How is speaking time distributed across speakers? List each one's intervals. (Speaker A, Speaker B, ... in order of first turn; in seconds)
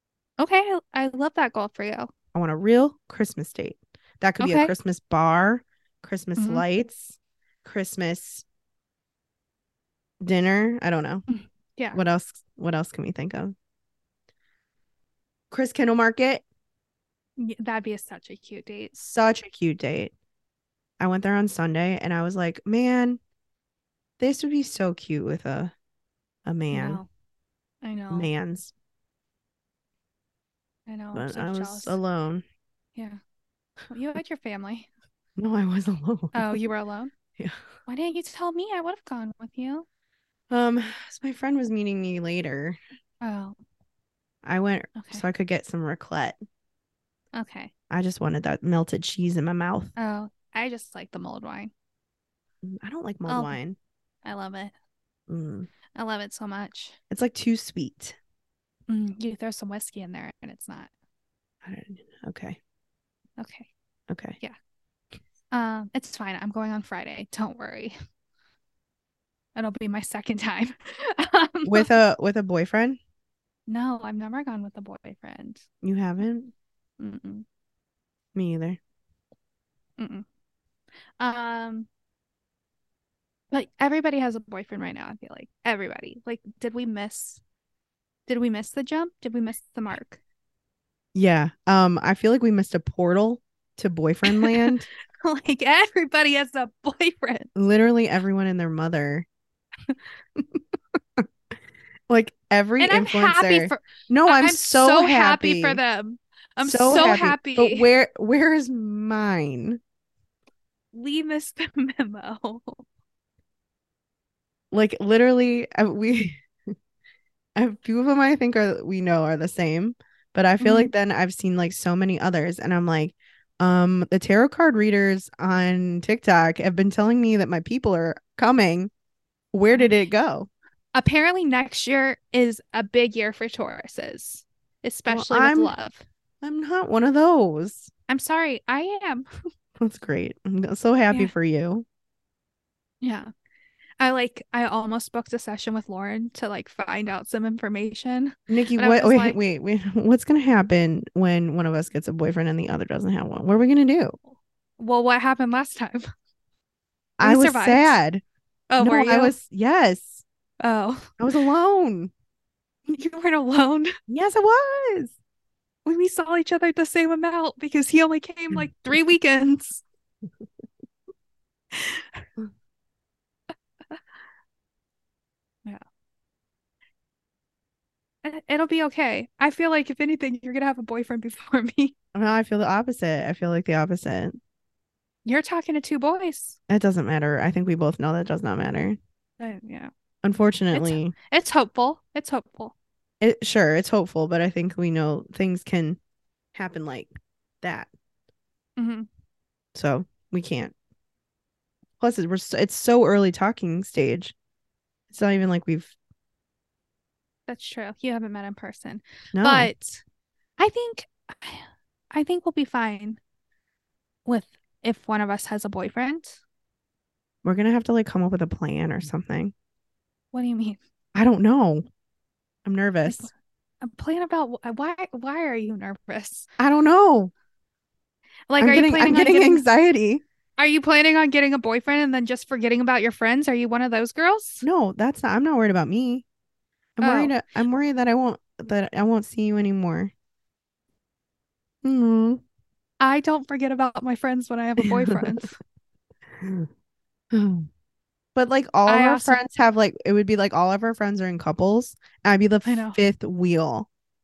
Speaker A: 0.4-2.1, 4.4-4.7, 6.4-6.6, 11.3-12.0, 17.4-19.1, 26.7-27.1, 27.8-28.3, 30.9-32.0, 33.9-34.9, 36.3-37.1, 37.9-39.9, 43.2-43.6, 45.0-45.2, 47.3-47.7, 50.0-51.7, 53.3-53.6, 54.2-54.7, 56.0-57.0, 58.9-60.9, 63.4-63.7, 65.5-67.9, 69.6-71.9, 73.7-75.6, 77.0-77.5, 80.0-80.2, 81.2-81.9, 83.5-87.4, 88.3-90.2, 94.3-97.5, 102.8-107.9, 110.9-112.8, 120.6-120.9, 130.9-136.0, 138.1-139.3, 143.0-143.3, 144.0-149.4, 154.8-156.1, 157.2-158.0, 158.7-159.3, 160.6-161.1, 162.9-163.9, 165.8-169.8, 171.7-172.3, 178.2-181.9, 185.2-186.6, 189.4-189.9, 190.7-192.8, 198.8-199.1, 207.5-210.0, 210.6-213.2, 214.3-216.4, 220.3-220.8, 223.1-226.5, 228.5-229.7, 230.6-234.7, 237.0-237.3, 243.0-245.6, 248.9-249.4, 252.7-253.0
Speaker B: 2.3-8.4, 10.2-11.2, 11.9-13.6, 15.5-16.4, 19.1-20.1, 21.0-23.2, 24.2-25.7, 26.5-27.0, 28.1-28.7, 31.1-32.4, 35.4-36.6, 40.5-42.8, 44.4-46.4, 47.9-49.9, 52.6-53.8, 55.3-55.7, 57.1-58.2, 61.6-62.6, 64.1-64.4, 71.7-73.0, 75.8-76.5, 78.3-78.8, 91.1-94.9, 97.6-99.3, 102.1-105.8, 106.6-109.8, 114.7-116.4, 117.6-128.9, 129.5-130.5, 135.1-135.7, 136.4-137.9, 139.8-141.9, 148.5-154.2, 157.2-158.2, 158.8-160.2, 161.2-162.1, 164.1-165.1, 182.2-184.4, 186.7-189.0, 190.2-191.1, 193.2-196.0, 196.6-197.1, 197.6-197.9, 199.8-200.7, 202.0-204.3, 205.1-205.9, 209.3-209.7, 217.4-219.5, 221.2-221.8, 222.7-223.3, 226.6-227.3, 228.6-230.2, 234.6-236.2, 237.0-240.1, 241.8-242.4, 244.8-245.3, 246.4-246.7, 247.3-247.7, 248.3-253.9